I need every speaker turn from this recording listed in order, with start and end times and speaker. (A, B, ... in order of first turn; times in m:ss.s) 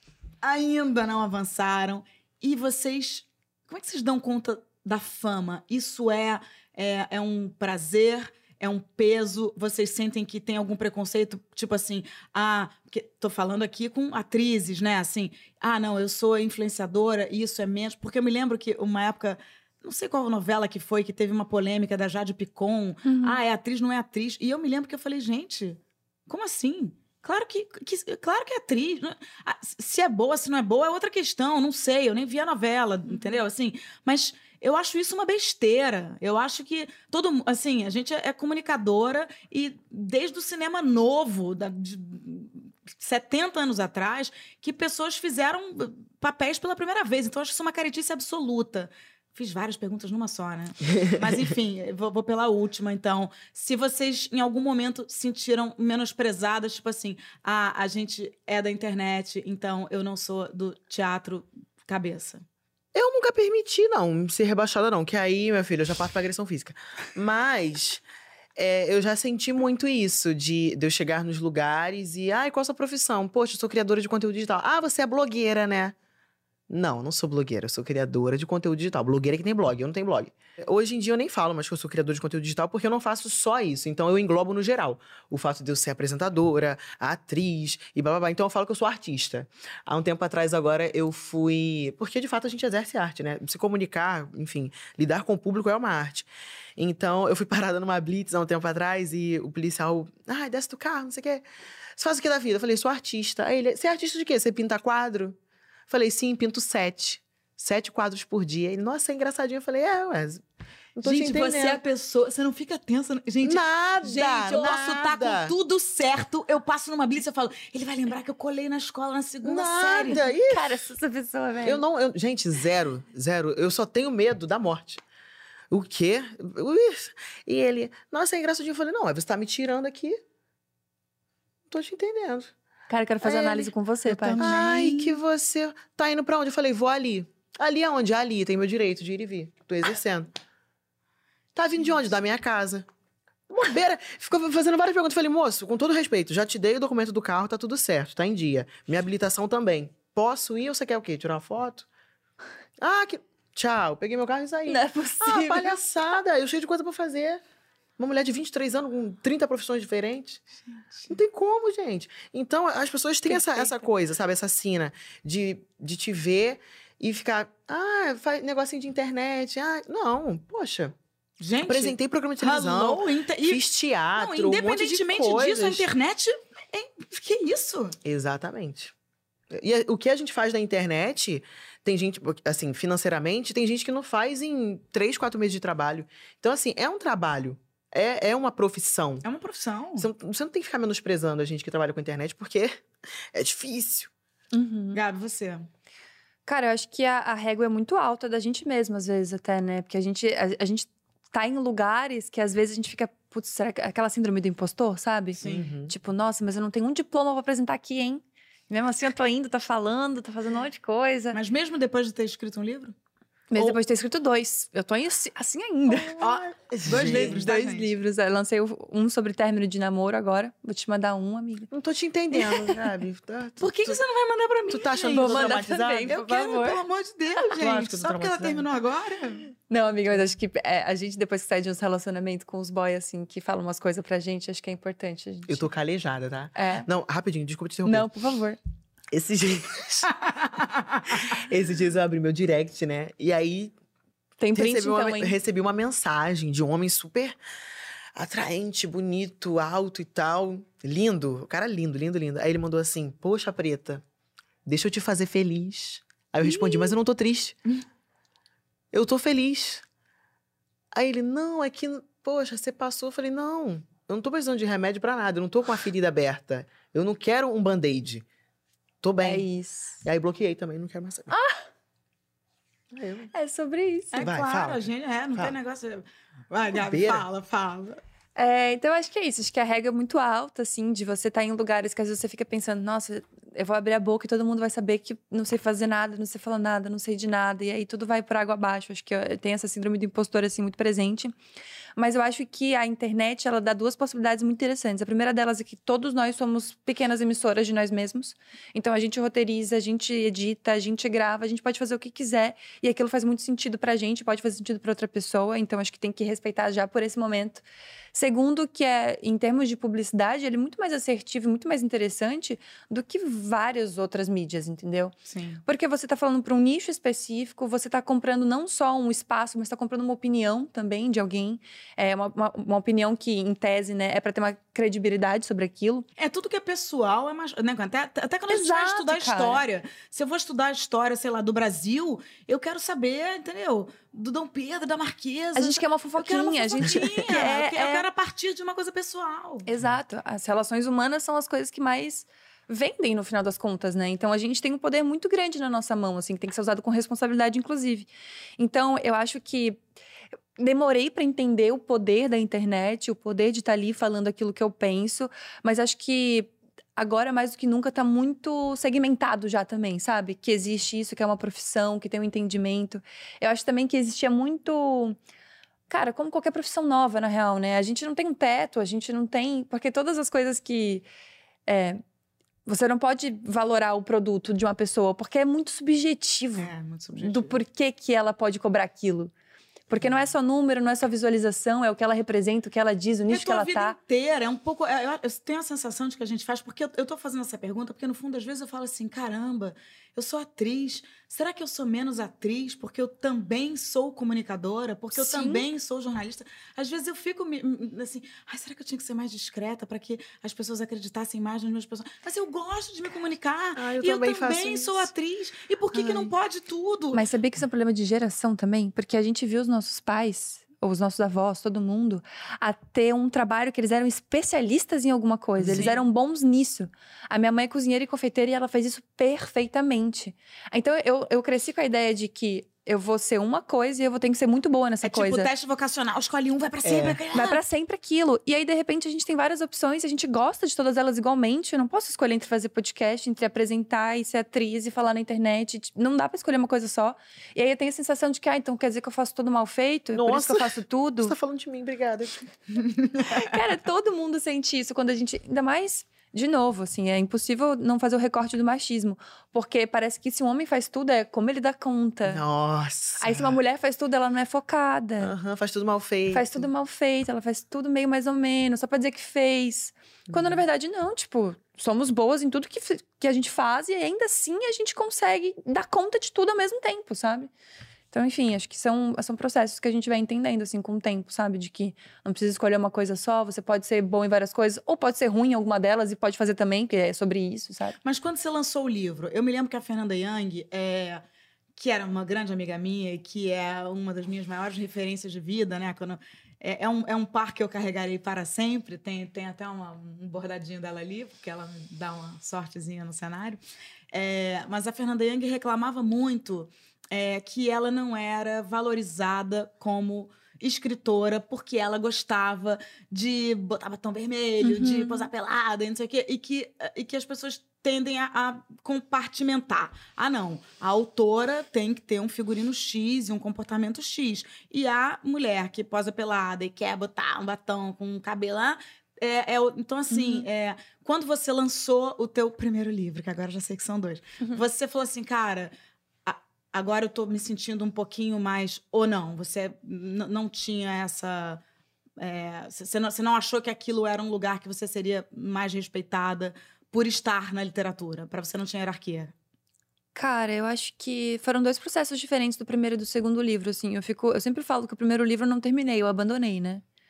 0:00.4-1:02.4 A
0:23.0-0:23.4 B
1:02.9-1:08.0 C
1:08.6-1:16.0 C
1:16.7-1:41.4 C
1:42.0-1:45.4 C
1:45.9-1:50.4 C
1:51.0-1:51.8 C
1:51.0-2:00.2 A
1:53.4-1:55.5 C
1:59.4-2:00.8 C
2:00.3-2:01.8 B
2:01.6-2:05.0 C
2:05.7-2:10.2 C
2:11.7-2:12.5 C
2:12.9-2:14.5 B
2:13.2-2:13.7 C
2:14.1-2:15.2 A
2:14.4-2:20.3 C
2:21.6-2:22.9 C
2:23.5-2:31.9 C
2:32.8-2:37.4 C
2:34.7-2:35.8 B
2:38.0-2:40.4 C
2:40.7-2:41.1 A
2:41.1-2:51.0 C
2:43.3-2:43.8 A
2:51.4-2:53.6 A
2:51.7-2:55.8 C
2:54.2-2:58.0 A
2:58.0-2:58.9 C
2:59.5-3:09.2 C
3:09.2-3:10.1 A
3:10.0-3:14.1 C
3:14.5-3:15.0 B
3:14.9-3:15.7 A
3:16.5-3:31.4 B
3:25.4-3:25.7 A
3:25.4-3:25.9 C
3:31.3-3:32.9 A
3:33.5-3:36.4 B
3:35.9-3:37.5 C
3:36.2-3:37.9 A
3:36.9-3:41.7 B
3:41.7-3:44.0 C
3:42.3-3:42.8 B
3:43.6-3:49.5 A
3:44.7-3:46.6 C
3:44.9-3:46.8 B
3:47.5-3:48.7 C
3:49.7-3:55.6 B
3:55.5-3:58.1 C
3:56.6-3:56.9 B
3:57.8-3:58.6 B
3:59.1-4:00.1 C
4:01.1-4:03.7 C
4:04.4-4:05.4 B
4:04.6-4:07.4 C
4:08.2-4:14.0 C
4:14.7-4:17.6 C
4:16.4-4:16.9 B
4:18.9-4:19.8 C
4:20.9-4:28.2 C
4:29.0-4:29.5 C
4:29.2-4:30.0 B
4:30.0-4:31.3 C
4:31.3-4:31.6 B
4:32.9-4:33.3 C
4:33.3-4:34.3 B
4:34.1-4:38.0 A
4:34.2-4:35.6 C
4:36.7-4:37.3 C
4:38.4-4:51.3 B
4:52.0-5:15.1 B
5:15.3-5:15.6 A
5:15.7-5:26.0 B
5:26.2-5:39.7 A
5:28.5-5:29.6 B
5:35.6-5:38.0 B
5:39.7-5:49.8 B
5:50.6-6:05.2 B
6:05.9-6:11.0 B
6:11.7-6:12.0 B
6:12.7-6:19.3 B
6:16.6-6:17.6 A
6:19.9-6:24.0 B
6:23.3-6:47.3 A
6:35.2-6:35.7 B
6:43.8-6:45.1 C
6:45.9-6:46.3 C
6:47.1-7:05.5 B
6:55.6-6:55.9 C
6:55.7-6:56.0 A
7:05.0-7:07.6 A
7:06.8-7:07.2 C
7:07.3-7:21.4 B
7:20.1-7:22.5 C
7:23.2-7:32.4 B
7:32.3-7:33.6 C
7:33.2-7:35.3 B
7:35.2-7:36.7 C
7:36.3-7:47.5 B
7:40.3-7:40.6 C
7:48.1-7:58.0 B
7:58.0-8:01.2 A
8:01.8-8:13.6 A
8:14.1-8:45.7 A
8:24.6-8:25.3 B
8:40.1-8:40.5 B
8:46.3-8:51.6 A
8:52.2-8:59.3 A
9:00.2-9:06.8 B